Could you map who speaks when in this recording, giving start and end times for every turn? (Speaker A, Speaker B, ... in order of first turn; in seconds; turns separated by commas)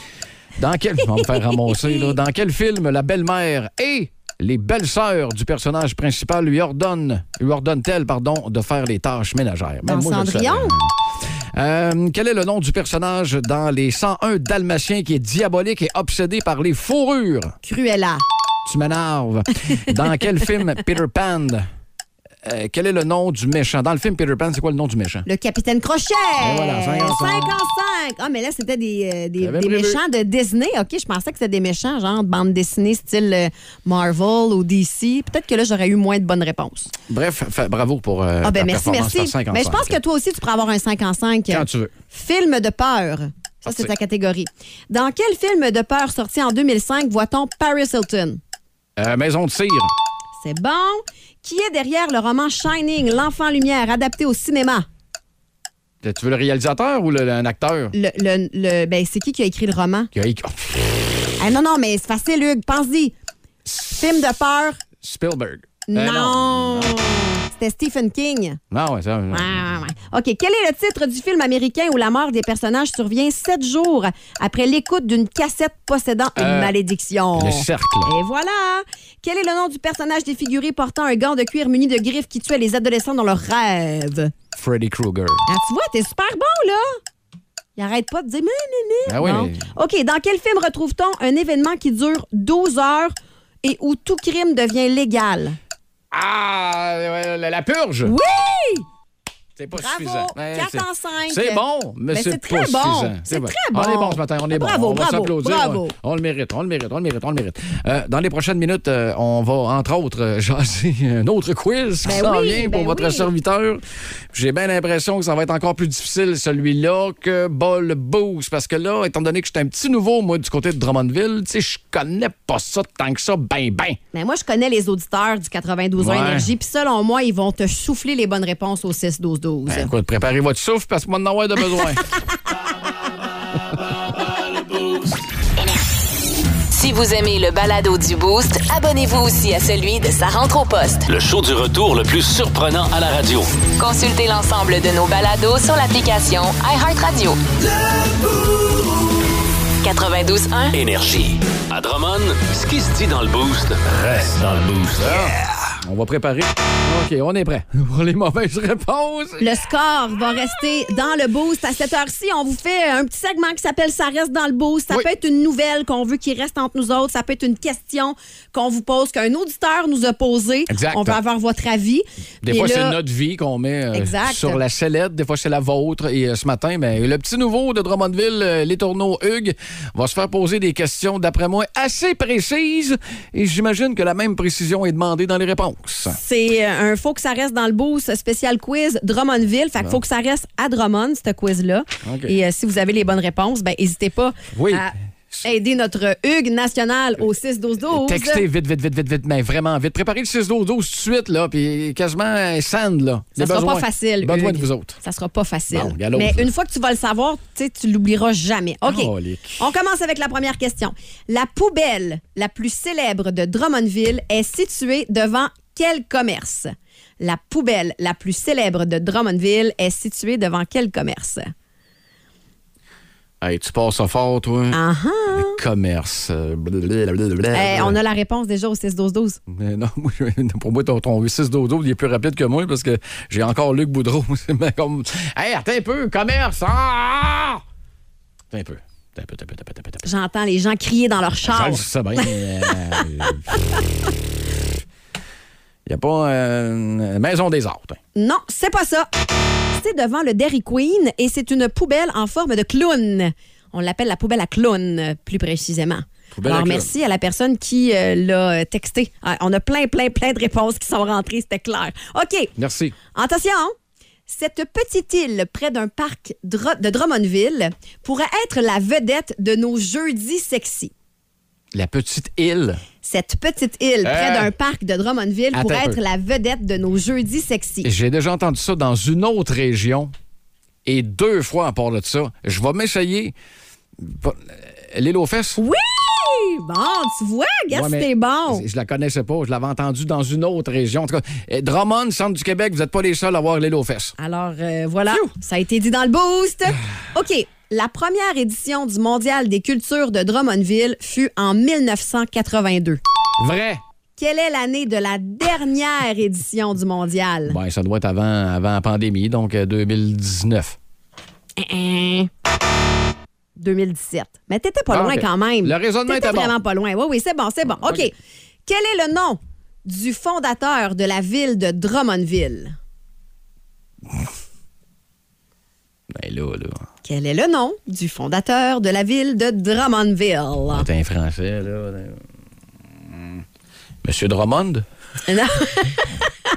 Speaker A: 0.6-17.5, Speaker B: 1.2-2.1, Speaker B: 9.8-10.7, Speaker B: 17.6-18.2, Speaker A: 18.6-21.6, Speaker A: 22.4-25.2, Speaker B: 25.2-36.9, Speaker A: 26.4-27.5, Speaker A: 29.4-30.0, Speaker A: 37.1-40.0, Speaker B: 38.4-48.4, Speaker A: 41.5-41.9, Speaker A: 43.6-43.9, Speaker A: 49.0-49.9, Speaker B: 50.4-54.9, Speaker A: 56.0-57.9, Speaker B: 57.9-60.1, Speaker A: 60.1-61.1, Speaker B: 61.4-63.1, Speaker A: 63.6-64.1, Speaker B: 63.9-64.8, Speaker A: 65.0-67.0, Speaker B: 65.9-68.6, Speaker A: 68.7-69.6, Speaker B: 69.3-84.3, Speaker A: 76.3-76.7, Speaker A: 77.3-78.1, Speaker A: 84.5-85.4, Speaker B: 85.5-87.0, Speaker B: 87.8-95.6, Speaker A: 89.0-89.7, Speaker A: 96.1-98.1, Speaker B: 98.0-98.8, Speaker A: 99.6-124.0, Speaker B: 99.7-105.9, Speaker B: 112.0-113.3, Speaker B: 124.1-129.9, Speaker A: 126.0-126.5, Speaker A: 129.7-132.0, Speaker C: 134.6-135.0, Speaker D: 136.7-141.1, Speaker C: 141.1-143.6, Speaker D: 143.8-147.4, Speaker D: 149.8-150.8, Speaker C: 150.7-155.5, Speaker A: 155.0-159.6, Speaker B: 159.4-173.0, Speaker A: 170.7-171.2, Speaker A: 172.4-186.2, Speaker B: 173.9-174.6, Speaker B: 186.1-194.9, Speaker A: 192.0-192.3, Speaker A: 194.5-195.4, Speaker B: 195.4-198.4, Speaker A: 197.9-205.0, Speaker B: 203.3-221.5, Speaker A: 205.7-206.5, Speaker A: 208.8-209.6, Speaker A: 223.4-224.8, Speaker B: 224.7-225.6, Speaker A: 225.3-228.0, Speaker B: 227.5-229.4, Speaker A: 229.5-237.6, Speaker A: 238.5-240.0, Speaker B: 240.0-243.0, Speaker A: 241.4-243.6, Speaker A: 245.8-248.0, Speaker B: 248.2-249.1, Speaker B: 249.7-262.5, Speaker A: 256.3-256.9, Speaker A: 262.6-262.9, Speaker B: 263.1-263.7, Speaker B: 264.3-270.9, Speaker A: 271.7-272.8, Speaker B: 273.0-277.9, Speaker A: 274.0-274.5, Speaker A: 275.5-276.0, Speaker A: 277.8-280.1, Speaker A: 280.8-283.3, Speaker A: 284.0-285.6, Speaker B: 285.6-288.6, Speaker A: 287.7-294.1, Speaker B: 294.2-303.0, Speaker A: 303.4-303.8, Speaker B: 304.2-307.6, Speaker A: 307.5-310.8, Speaker B: 311.6-312.3, Speaker B: 313.6-318.1, Speaker A: 314.9-316.5, Speaker B: 318.6-322.8, Speaker A: 326.1-326.8, Speaker B: 327.0-330.9, Speaker A: 330.7-332.2, Speaker A: 333.1-333.4, Speaker A: 334.0-334.8, Speaker B: 335.3-336.3